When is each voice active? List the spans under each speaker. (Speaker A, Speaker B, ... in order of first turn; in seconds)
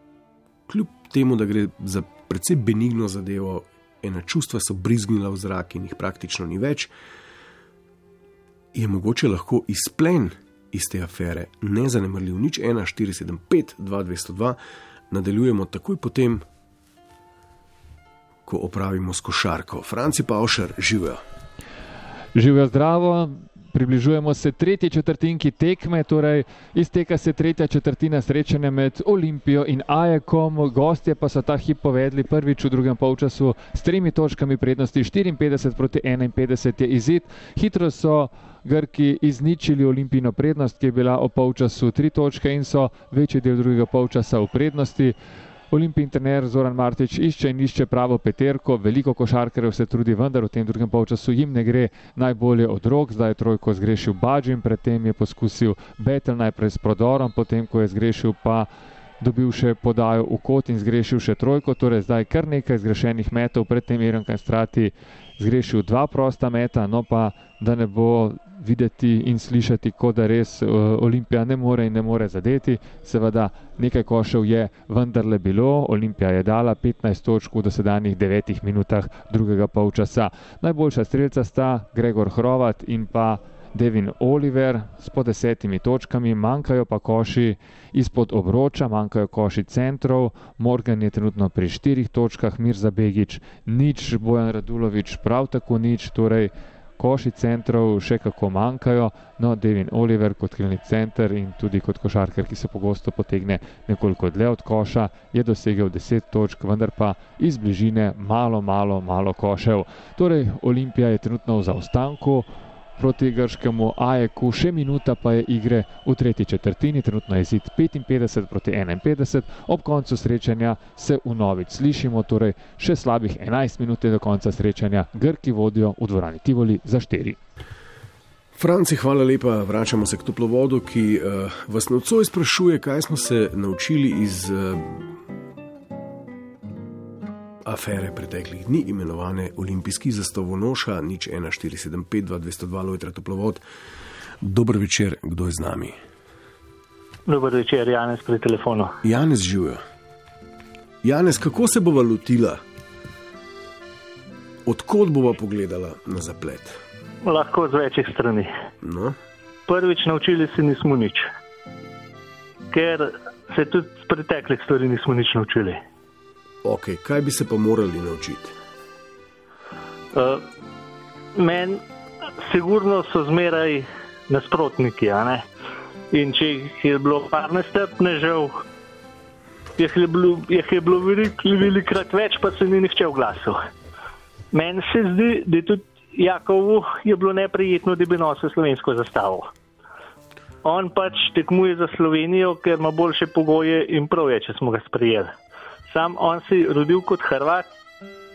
Speaker A: 0.7-6.9, 8.7-14.6, 15.1-16.4, 18.5-21.2, 128.6-135.1, 137.7-143.6, 144.4-146.0, 149.0-149.8, 151.0-152.6, 154.7-156.8, 158.8-159.2, 166.6-168.6
Speaker B: 22.4-45.1, 45.7-58.7, 59.2-127.4
Speaker C: 147.3-149.0, 157.2-158.5, 159.7-161.3, 162.7-165.8, 170.1-170.4, 171.4-171.8, 172.4-175.4, 176.1-178.6, 179.8-183.6, 184.5-189.5, 190.7-195.3, 195.9-197.7